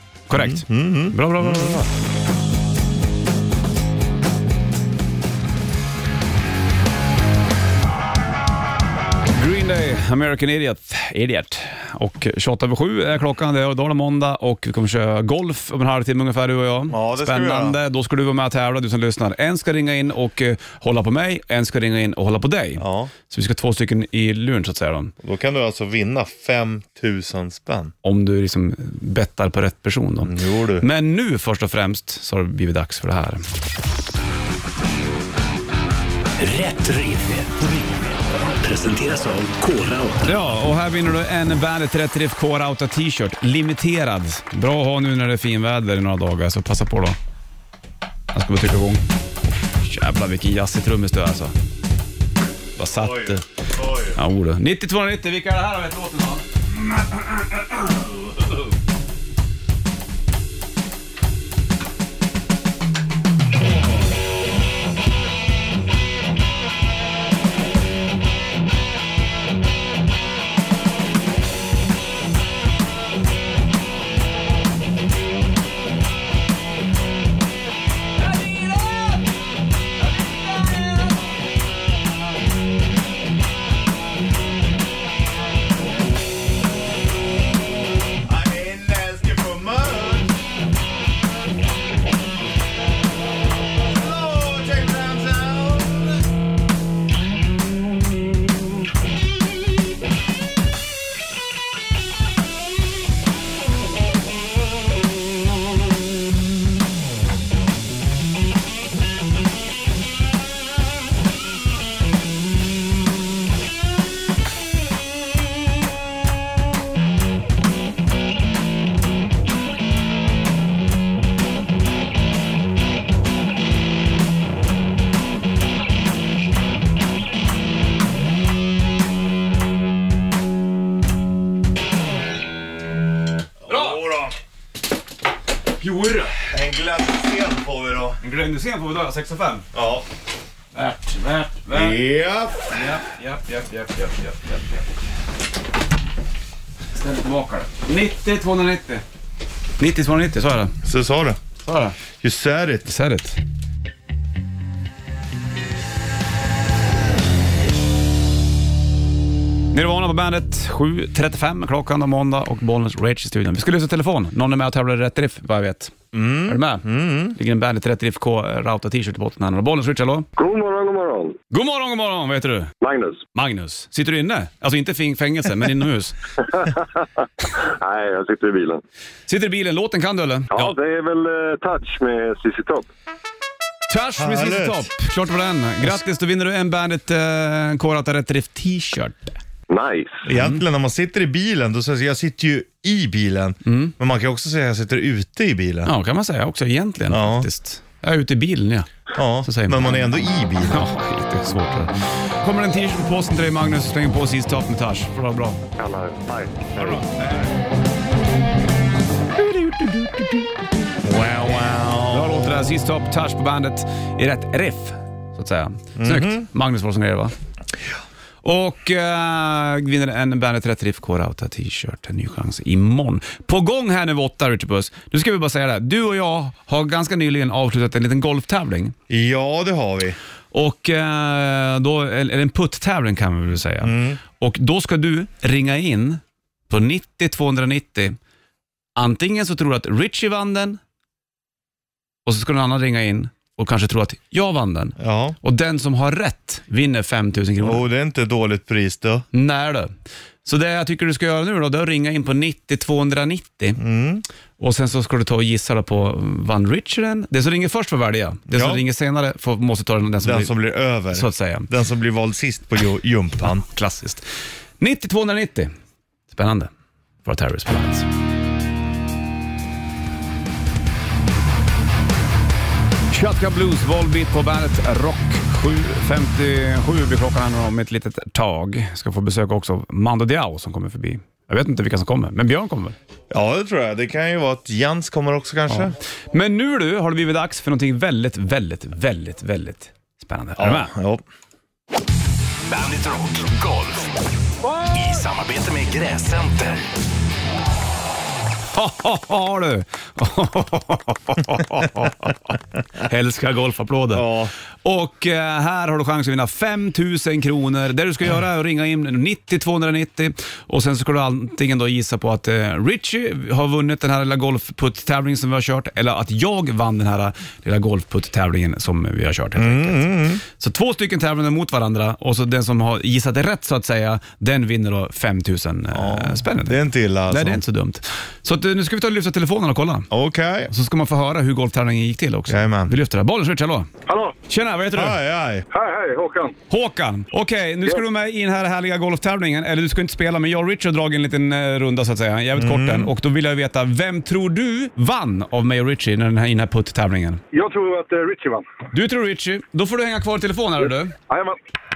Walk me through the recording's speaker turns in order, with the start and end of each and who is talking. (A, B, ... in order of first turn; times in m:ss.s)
0:00.3-0:01.9 A
0:00.3-0:01.8 B
0:09.3-0:25.1 A
0:16.9-0:17.8 B
0:22.8-0:23.1 B
0:25.2-0:27.9 B
0:28.0-0:33.4 A
0:30.2-0:30.8 B
0:36.4-0:38.0 C
0:38.6-0:40.3 C
0:40.2-0:47.2 A
0:48.3-0:49.0 A
0:49.8-0:51.5 A
0:52.8-0:53.4 A
0:52.9-0:54.2 B
0:54.1-0:56.4 A
1:18.3-1:19.1 A
1:28.2-1:30.4 B
1:33.8-1:36.2 B
2:13.6-2:14.3 B
2:13.7-2:14.0 A
2:15.8-2:16.3 A
2:16.4-2:18.2 B
2:18.2-2:19.6 A
2:19.7-2:20.0 B
2:20.7-2:22.0 A
2:21.7-2:22.7 B
2:22.7-2:24.8 A
2:26.9-2:29.0 A
2:29.8-2:30.7 A
2:30.8-2:31.4 B
2:31.6-2:32.0 A
2:32.2-2:32.9 B
2:32.8-2:33.4 A
2:39.7-2:45.9 A
2:46.1-2:47.4 B
2:46.5-2:50.3 A
2:50.4-2:51.4 D
2:51.5-2:52.7 A
2:52.8-2:53.2 D
2:53.3-2:56.2 A
2:56.6-2:56.8 D
2:57.6-2:58.8 D
2:59.3-3:00.7 A
3:00.5-3:02.9 D
3:03.9-3:09.4 A
3:04.2-3:04.9 B
3:09.7-3:10.2 D
3:10.2-3:15.9 B
3:10.3-3:10.6 A
3:13.6-3:13.9 A
3:15.8-3:18.9 A
3:17.1-3:17.5 B
3:19.1-3:20.9 B
3:19.4-3:25.6 A
3:25.8-3:27.0 D
3:26.8-3:27.5 A
3:29.4-3:30.6 A
3:31.0-3:32.6 B
3:32.1-3:37.3 A
3:36.0-3:36.4 B
3:38.4-3:48.9 A
3:49.1-3:50.2 B
3:50.5-3:58.2 A
3:53.8-3:54.2 B
3:59.0-4:00.8 A
4:02.2-4:07.8 A
4:05.0-4:05.4 B
4:07.6-4:09.2 B
4:09.3-4:09.9 A
4:10.4-4:13.8 A
4:13.8-4:14.2 B
4:14.6-4:20.5 A
4:18.5-4:18.8 B
4:20.2-4:23.6 B
4:21.1-4:21.7 A
4:23.4-4:24.2 A
4:24.8-4:25.7 A
4:26.3-4:26.7 A
4:27.2-4:28.1 A
4:33.1-4:43.0 A
4:43.3-4:46.0 B
4:45.7-4:50.9 A
4:50.6-4:51.2 B
4:52.6-4:54.1 C
4:54.9-4:56.9 C
4:58.7-5:02.5 A
5:03.0-5:04.3 A
5:04.1-5:04.5 B
5:04.8-5:30.1 A
5:19.6-5:20.4 B
5:25.9-5:27.6 B
5:30.1-5:30.7 B
5:30.7-5:33.9 A
5:32.5-5:32.9 B
5:34.4-5:35.2 A
5:34.9-5:35.6 B
5:35.7-5:36.5 E
5:36.7-5:47.4 A
5:42.6-5:43.1 B
5:47.5-5:48.6 E
5:48.9-5:51.1 A
5:51.3-5:51.6 E